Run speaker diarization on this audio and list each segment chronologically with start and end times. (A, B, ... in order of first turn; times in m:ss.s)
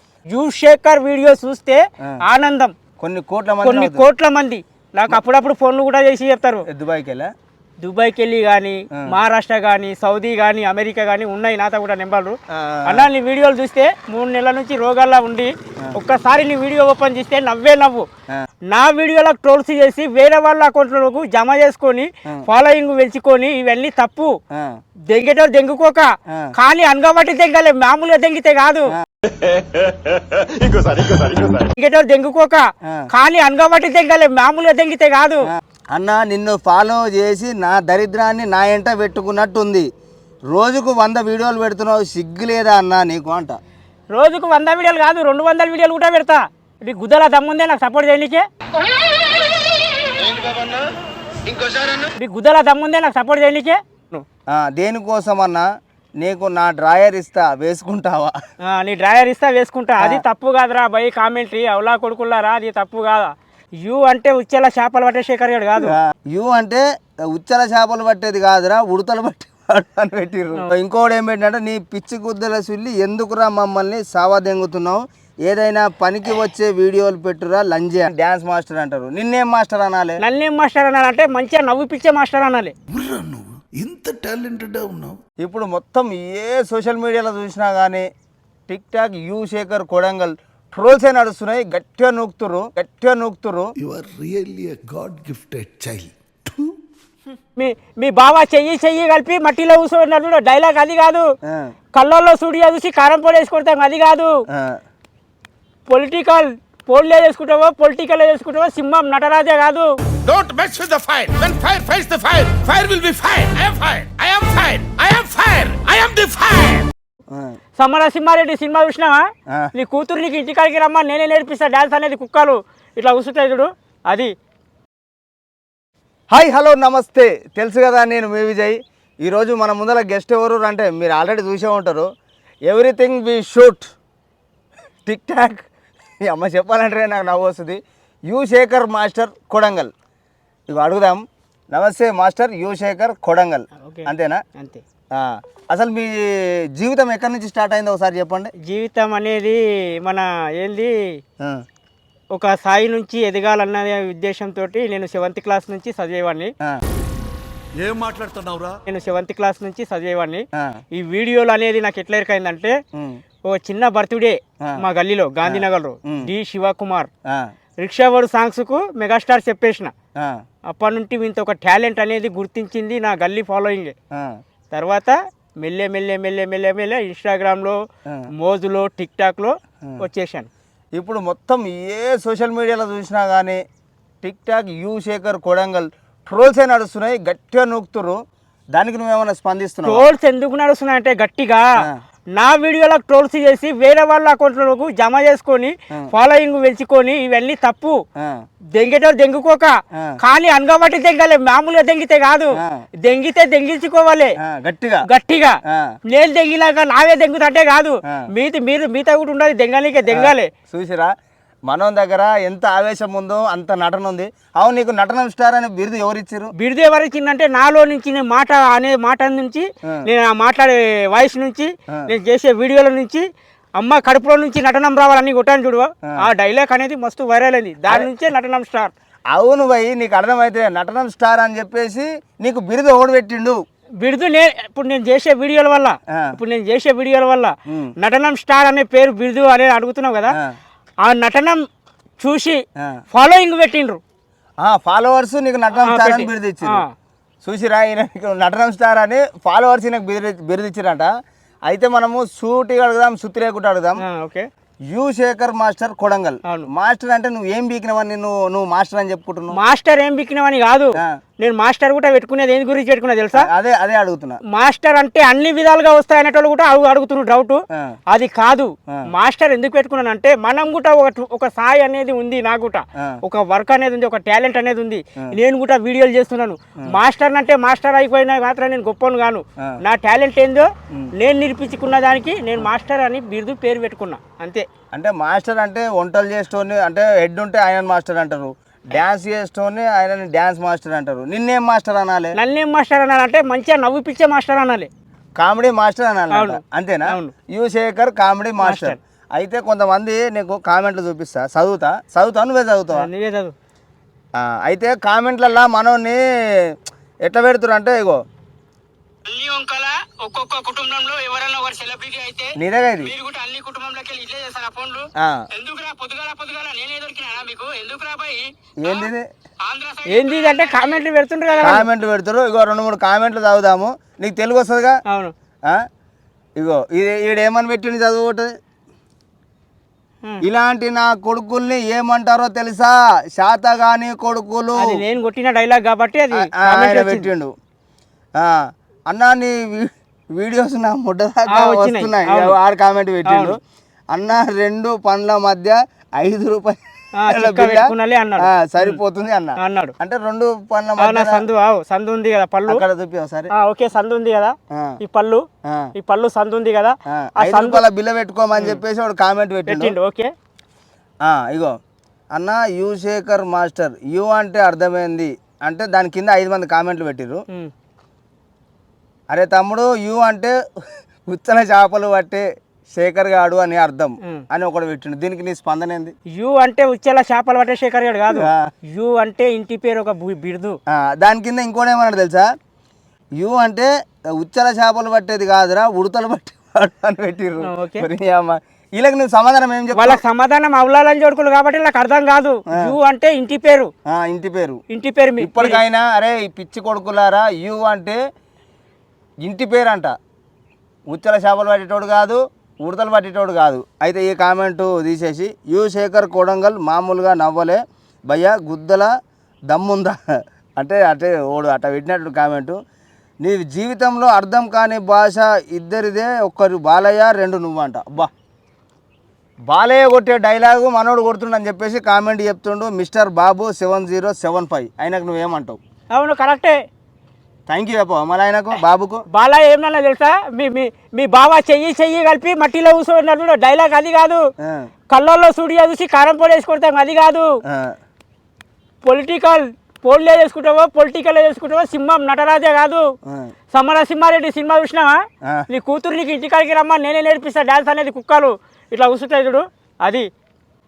0:00.3-0:02.7 A
0:03.0-0:04.1 B
0:03.6-0:06.6 A
0:06.7-0:07.3 B
0:07.8-0:18.1 A
0:12.5-0:13.1 B
0:18.7-0:24.4 A
0:25.1-0:28.9 A
0:30.5-0:31.5 C
0:31.7-0:35.5 A
0:35.9-0:39.9 B
0:40.5-0:43.6 B
0:44.1-0:48.4 A
0:50.3-0:50.8 B
0:52.2-0:54.2 A
0:54.5-0:55.7 B
0:56.2-0:58.4 B
0:58.7-1:05.9 A
1:05.8-1:20.2 B
1:20.2-1:22.7 A
1:22.9-1:25.2 D
1:25.4-1:28.1 B
1:28.7-1:33.7 B
1:33.8-1:36.7 D
1:37.6-1:41.3 A
1:41.5-1:41.7 B
1:41.9-1:44.4 A
1:44.5-1:44.8 B
1:45.9-1:49.9 A
1:50.2-1:56.9 C
1:57.3-1:57.6 B
1:57.8-2:04.3 A
2:06.3-2:12.1 B
2:12.7-2:13.9 B
2:15.1-2:15.7 B
2:16.2-2:19.9 B
2:20.7-2:24.4 B
2:23.8-2:24.8 A
2:25.1-2:28.5 B
2:28.6-2:31.2 A
2:32.3-2:36.5 A
2:37.8-2:38.8 C
2:38.9-2:42.8 A
2:42.9-2:43.2 B
2:43.5-2:47.1 A
2:45.4-2:46.3 B
2:47.8-2:49.9 A
2:50.7-2:54.0 A
2:54.7-2:57.8 A
2:58.4-3:00.5 A
3:01.0-3:03.6 B
3:04.2-3:08.2 B
3:08.7-3:10.0 B
3:09.8-3:11.7 A
3:12.4-3:18.0 A
3:18.8-3:24.3 A
3:24.4-3:25.0 B
3:25.0-3:25.6 A
3:26.1-3:30.5 A
3:30.1-3:31.1 B
3:31.7-3:36.5 B
3:36.6-3:43.2 A
3:43.8-3:48.9 A
3:49.3-3:53.6 B
3:54.0-4:00.4 A
3:57.7-3:57.9 B
4:01.0-4:01.6 A
4:02.2-4:02.6 A
4:03.1-4:04.0 A
4:04.6-4:06.8 B
4:05.7-4:06.9 A
4:07.4-4:11.1 B
4:11.7-4:14.0 B
4:14.0-4:14.5 A
4:14.9-4:19.6 B
4:19.5-4:23.5 A
4:23.3-4:24.4 B
4:24.5-4:27.6 A
4:28.1-4:44.6 A
4:44.9-4:52.4 B
4:52.4-4:54.9 A
4:55.4-5:03.1 B
4:56.3-4:57.3 A
4:58.6-4:59.0 A
5:02.9-5:03.5 A
5:04.4-5:08.2 B
5:09.3-5:17.7 A
5:10.7-5:12.2 E
5:12.6-5:13.1 B
5:13.2-5:14.8 E
5:15.2-5:15.5 B
5:15.7-5:18.5 E
5:18.8-5:19.3 B
5:19.7-5:20.0 E
5:20.0-5:21.9 A
5:21.6-5:25.0 B
5:26.6-5:28.5 B
5:30.4-5:35.0 B
5:34.8-5:37.3 A
5:36.3-5:37.5 B
5:38.4-5:43.6 B
5:41.5-5:42.6 A
5:43.3-5:43.6 A
5:44.1-5:51.4 B
5:47.2-5:49.0 A
5:49.6-5:49.9 A
5:51.0-5:52.8 A
5:52.7-5:53.5 B
5:53.5-5:55.4 A
5:56.0-5:57.8 A
5:57.1-6:00.0 B
5:58.6-5:58.8 A
5:59.7-6:00.3 A
6:01.2-6:01.8 B
6:02.3-6:07.4 B
6:09.3-6:10.6 B
6:11.3-6:16.2 B
6:16.3-6:20.8 A
6:18.3-6:18.7 B
6:20.9-6:22.5 B
6:23.4-6:30.2 B
6:27.6-6:28.1 A
6:30.0-6:33.9 A
6:34.1-6:34.8 B
6:34.9-6:35.8 A
6:35.4-6:38.2 B
6:39.4-6:40.1 B
6:41.1-6:49.1 B
6:49.7-6:50.2 B
6:50.8-6:52.8 B
6:53.4-6:58.3 B
6:59.7-7:05.8 B
7:06.1-7:06.8 A
7:07.7-7:09.2 B
7:09.3-7:14.4 A
7:14.6-7:14.9 B
7:15.1-7:17.5 A
7:17.7-7:18.0 B
7:19.0-7:23.1 A
7:23.3-7:23.5 B
7:23.7-7:30.3 A